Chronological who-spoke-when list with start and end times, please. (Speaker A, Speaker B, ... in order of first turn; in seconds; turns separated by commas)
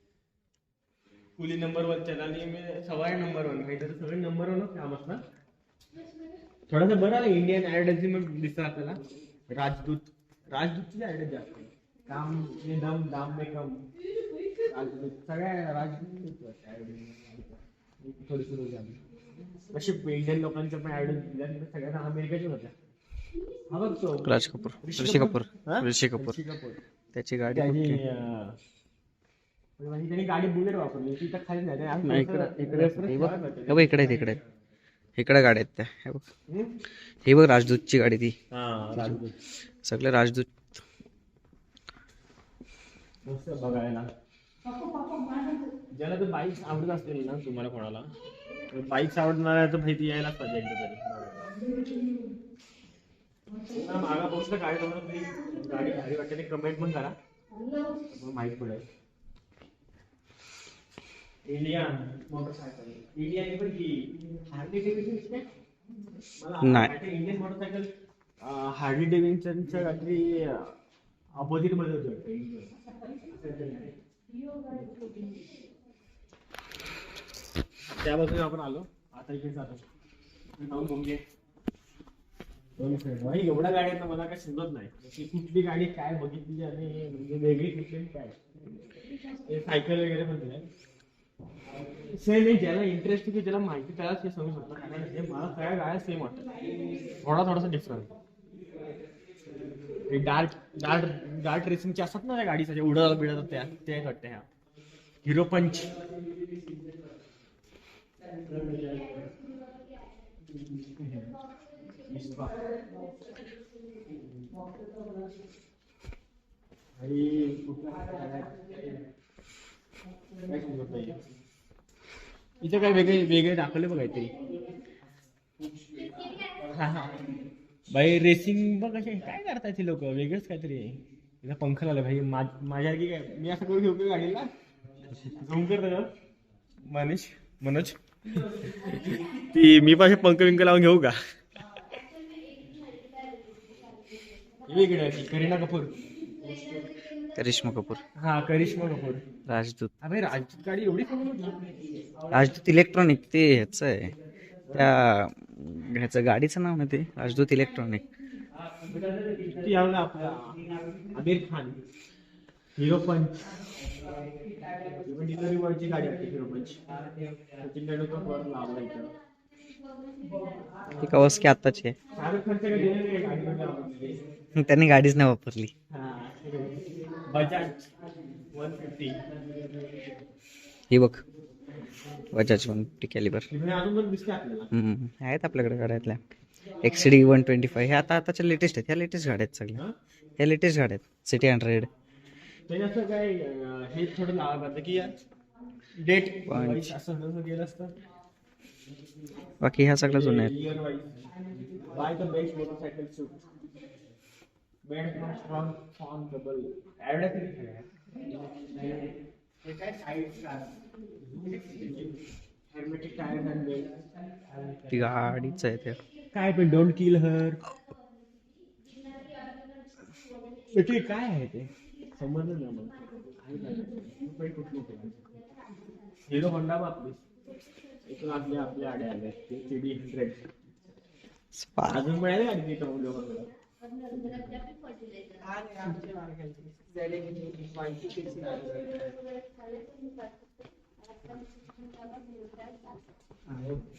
Speaker A: 1.4-5.2, Speaker A: 6.7-13.8, Speaker A: 14.7-19.0, Speaker A: 19.7-22.7, Speaker A: 23.7-24.3, Speaker B: 24.2-26.4, Speaker A: 24.8-26.8, Speaker B: 27.1-28.0, Speaker A: 27.5-28.6, Speaker A: 29.8-34.4, Speaker B: 32.0-34.4, Speaker B: 35.2-36.2, Speaker A: 36.5-36.7, Speaker B: 37.3-38.4, Speaker A: 38.5-39.4, Speaker B: 39.9-40.8, Speaker A: 43.3-44.1, Speaker A: 45.9-48.1, Speaker A: 48.7-51.5, Speaker A: 53.7-57.1, Speaker A: 58.1-58.8, Speaker A: 61.5-65.5, Speaker A: 66.4-67.9, Speaker B: 66.6-66.9, Speaker A: 68.4-70.7, Speaker A: 71.4-72.7, Speaker A: 73.3-73.9, Speaker A: 77.9-79.8, Speaker A: 80.6-81.2, Speaker A: 82.8-88.4, Speaker A: 89.5-90.7, Speaker A: 92.1-96.5, Speaker A: 97.2-98.1, Speaker A: 100.1-104.5, Speaker A: 105.2-105.9, Speaker A: 108.5-109.2, Speaker A: 110.9-111.3, Speaker A: 112.1-112.5, Speaker A: 117.0-119.0, Speaker A: 120.5-121.2, Speaker A: 122.6-124.3, Speaker A: 126.6-127.3, Speaker A: 127.9-134.5, Speaker A: 135.2-136.1, Speaker A: 136.9-141.2, Speaker A: 144.7-146.7, Speaker B: 147.3-148.0, Speaker A: 148.2-149.2, Speaker B: 149.5-149.9, Speaker A: 150.0-151.7, Speaker B: 152.3-154.2, Speaker B: 154.7-158.0, Speaker A: 159.1-160.6, Speaker A: 161.1-161.8, Speaker A: 162.8-163.4, Speaker A: 165.0-166.8, Speaker A: 167.6-169.1, Speaker B: 171.0-172.0, Speaker A: 172.1-174.2, Speaker B: 174.6-175.7, Speaker A: 175.9-177.9, Speaker A: 178.5-179.2, Speaker B: 180.9-181.2, Speaker B: 182.3-183.5, Speaker A: 183.5-184.7, Speaker B: 184.7-186.2, Speaker B: 186.8-189.8, Speaker B: 190.4-191.9, Speaker A: 192.7-195.1, Speaker A: 196.0-197.9, Speaker B: 196.5-196.9, Speaker B: 199.6-200.5, Speaker A: 200.0-201.2, Speaker A: 201.9-203.4, Speaker A: 204.9-207.9, Speaker A: 209.6-210.7, Speaker A: 211.4-212.1, Speaker A: 212.7-213.9, Speaker B: 214.9-216.0, Speaker A: 216.3-217.7, Speaker A: 220.7-225.3, Speaker A: 226.3-227.2, Speaker A: 228.1-230.5, Speaker B: 231.5-232.0, Speaker A: 231.9-233.5, Speaker A: 234.3-234.5, Speaker B: 235.7-236.0, Speaker B: 236.9-239.0, Speaker B: 243.5-243.8